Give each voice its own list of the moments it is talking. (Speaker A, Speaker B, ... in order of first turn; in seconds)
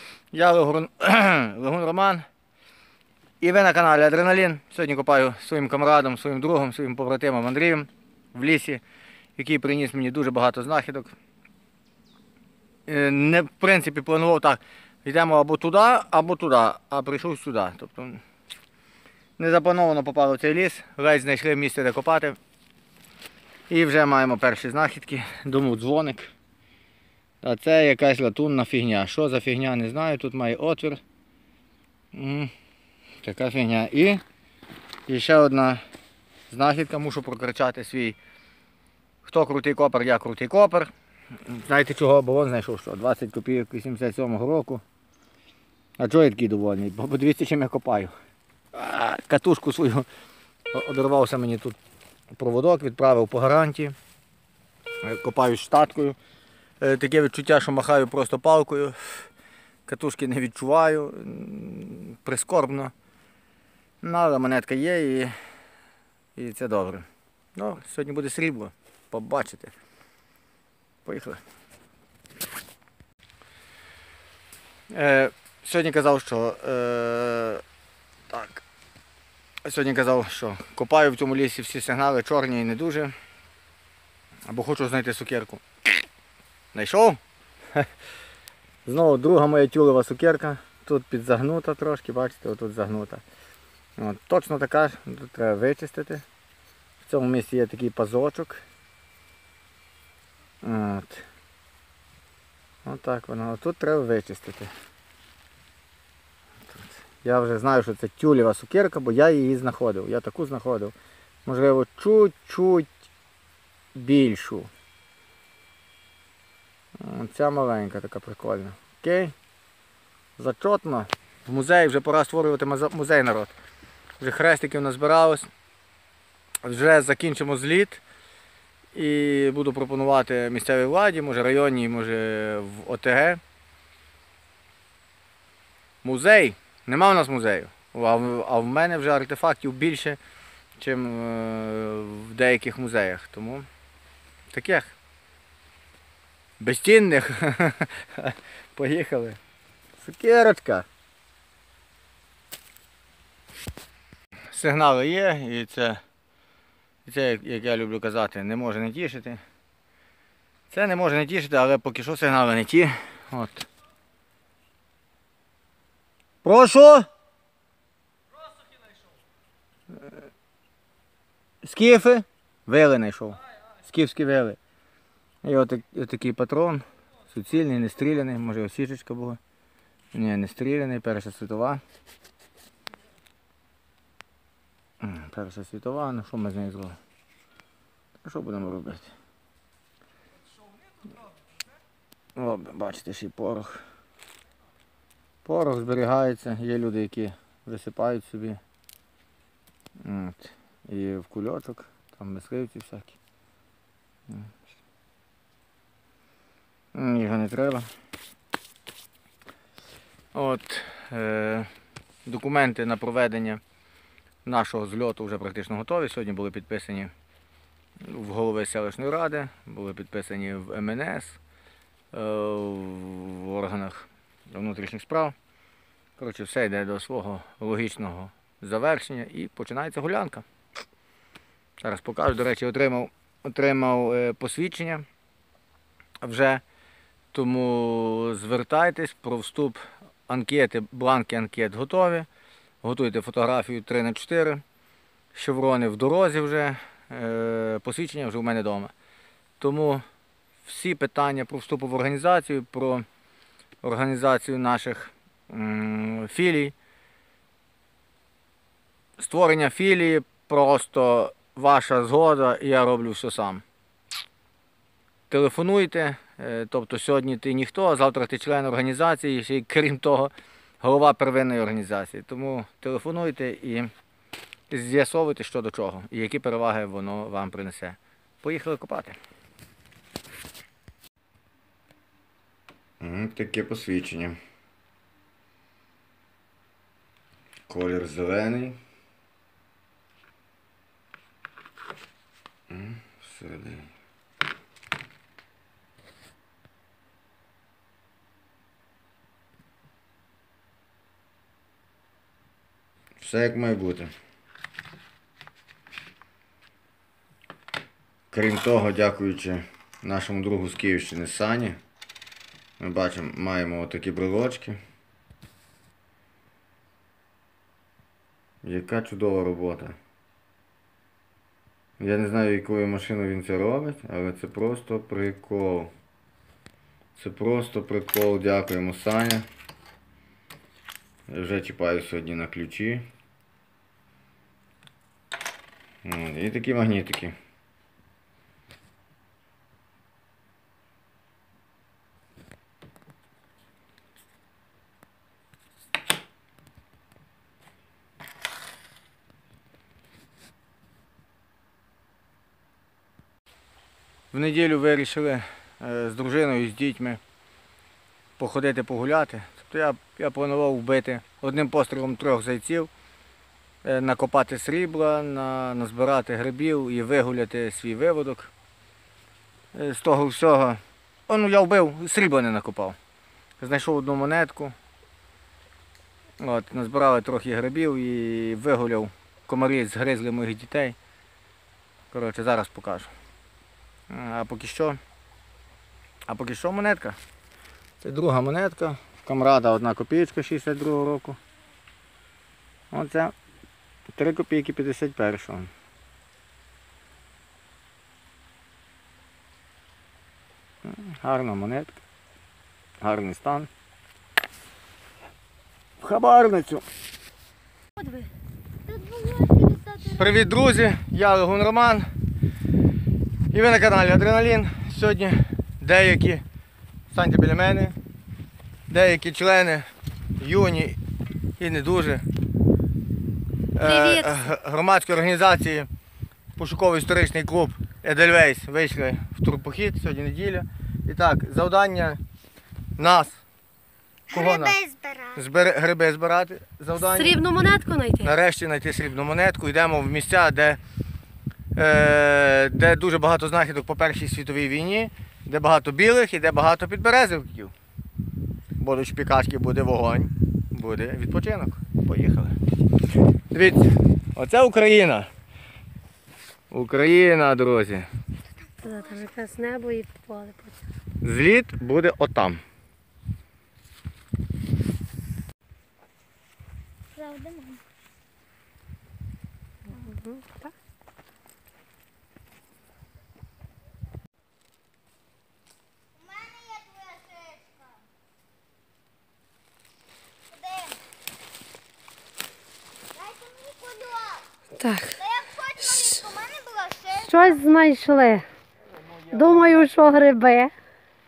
Speaker A: 0.3-2.2, 3.4-8.8, 9.4-11.1, 12.9-18.2, 19.4-22.4, 23.7-26.3, 27.4-31.0, 32.1-32.5, 33.2-34.2, 35.1-35.8, 36.5-38.2, 39.2-40.9, 41.5-44.8, 46.0-48.1, 48.7-50.1, 50.7-51.8, 52.3-54.0, 55.0-56.2, 56.8-59.3, 59.9-62.9, 64.0-65.3, 66.3-69.7, 71.0-71.4, 74.9-77.6, 78.3-78.6, 79.6-83.1, 84.5-85.6, 86.7-87.2, 88.8-93.2, 94.0-96.2, 97.0-98.6, 100.6-101.2, 102.8-104.7, 106.7-110.9, 111.5-112.9, 113.9-114.7, 117.0-119.3, 120.4-123.5, 124.2-125.5, 126.6-128.0, 128.9-133.4, 136.0-140.2, 140.8-143.7, 144.5-144.9, 146.6-149.4, 150.0-150.9, 154.5-156.0, 157.0-159.4, 160.7-163.7, 166.4-167.1, 171.6-174.6, 175.4-179.4, 180.1-181.8, 185.0-187.0, 188.2-189.1, 192.3-193.8, 195.4-198.6, 200.0-203.2, 206.9-207.9, 210.3-211.7, 212.2-213.6, 214.4-217.1, 218.0-221.4, 222.1-225.3, 226.2-230.4, 231.8-235.1, 236.2-236.6, 237.3-242.3, 242.8-244.6, 245.3-248.9, 249.6-250.0, 250.6-253.0, 253.8-256.8, 259.2-263.6, 265.3-273.9, 274.7-279.2, 283.0-284.4, 287.7-288.8, 292.7-293.9, 303.2-304.1, 308.3-311.8, 312.8-314.8, 318.6-320.0, 322.0-325.9, 327.2-329.5, 331.3-333.1, 336.1-337.4, 354.3-357.2, 358.4-362.9, 363.8-368.5, 369.7-373.0, 373.6-374.8, 376.4-381.0, 382.1-383.1, 384.1-385.0, 386.3-387.2, 388.0-391.4, 392.9-393.3, 394.2-395.7, 400.8-402.0, 403.0-403.7, 406.0-406.9, 410.1-412.1, 413.5-416.4, 417.1-418.0, 418.9-421.0, 421.6-422.2, 423.8-425.9, 426.6-432.2, 433.0-433.4, 434.3-434.8, 435.4-437.4, 438.2-440.8, 441.8-447.7, 448.8-452.6, 453.5-455.3, 456.7-458.1, 461.2-462.6, 488.9-489.9
Speaker B: 408.0-408.3, 423.8-424.4, 437.0-438.3, 458.8-460.8, 469.9-470.7, 484.8-485.2, 485.8-486.2, 487.2-488.5, 489.3-490.7
Speaker C: 408.9-410.4, 434.3-435.4, 458.8-459.1, 467.1-467.8, 476.2-478.0, 480.5-481.0, 483.1-484.4, 485.2-487.6